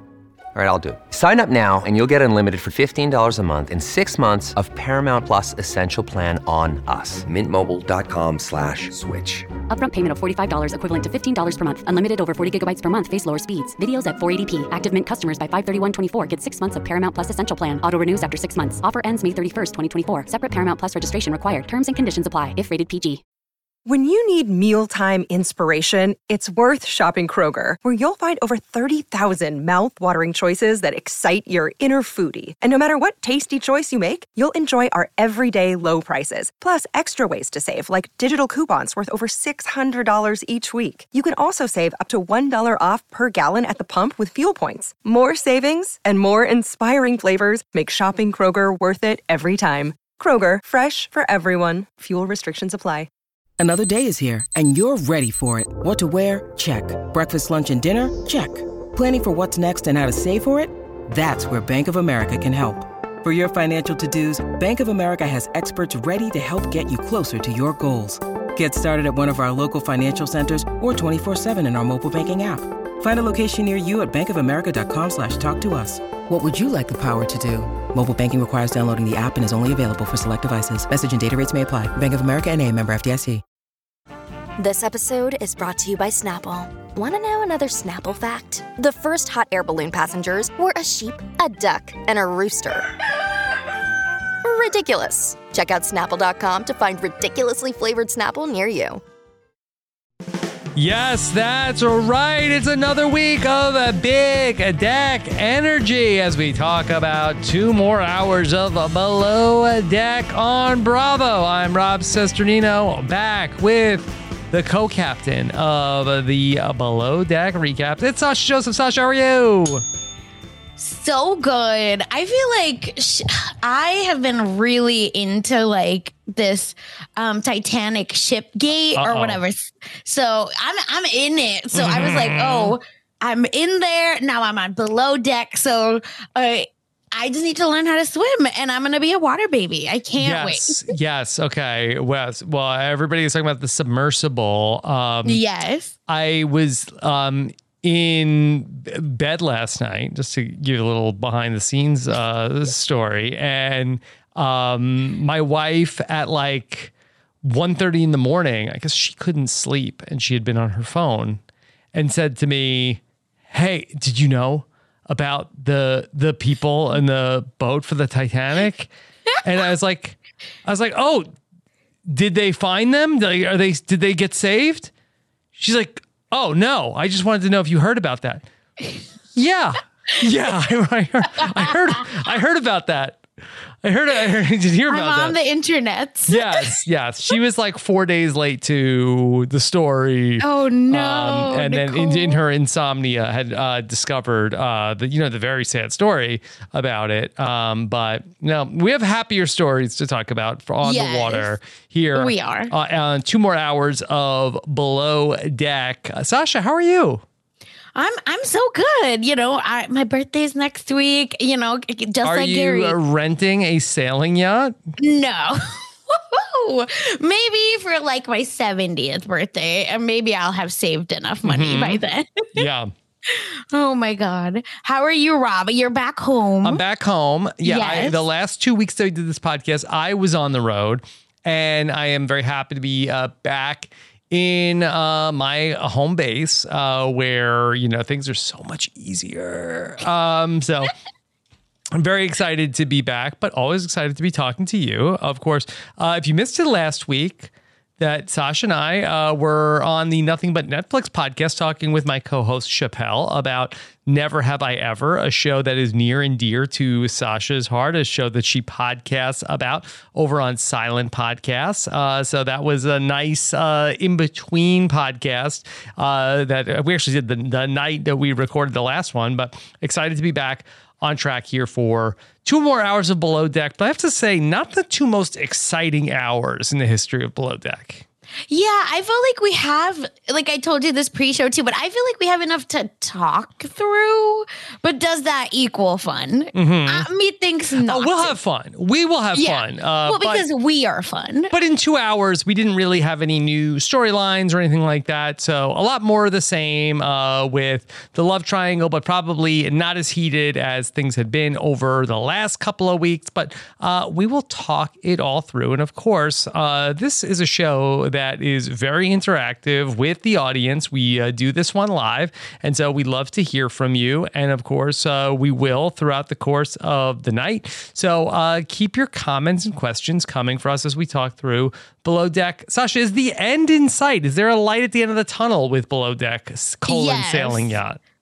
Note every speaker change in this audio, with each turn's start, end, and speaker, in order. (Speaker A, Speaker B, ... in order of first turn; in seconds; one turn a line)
Speaker A: 0.5-9.4
Speaker B: 9.7-23.2
Speaker C: 23.8-53.1
Speaker D: 53.6-83.4
Speaker E: 84.6-92.9
Speaker E: 94.4-99.0
Speaker F: 100.8-119.8
Speaker G: 120.8-140.9
Speaker F: 128.9-129.4
Speaker F: 131.7-132.8
Speaker F: 140.2-145.4
Speaker G: 145.2-145.9
Speaker F: 146.1-161.4
Speaker F: 161.9-168.9
Speaker F: 169.4-171.3
Speaker F: 172.1-174.9
Speaker F: 175.6-178.4
Speaker F: 179.3-183.2
Speaker G: 181.3-182.0
Speaker F: 183.8-185.4
Speaker G: 184.9-186.7
Speaker F: 186.3-207.2
Speaker G: 190.4-192.4
Speaker G: 200.8-201.5
Speaker G: 202.1-202.7
Speaker G: 207.9-213.0
Speaker F: 212.2-214.8
Speaker G: 215.0-222.6
Speaker F: 221.4-222.0
Speaker F: 222.6-222.9
Speaker G: 223.3-226.8
Speaker F: 226.6-240.9
Speaker G: 227.6-228.2
Speaker F: 241.9-278.0
Speaker G: 278.5-288.4
Speaker F: 286.5-287.1
Speaker F: 287.8-290.4
Speaker G: 289.3-291.5
Speaker F: 291.5-328.0
Speaker G: 326.9-327.8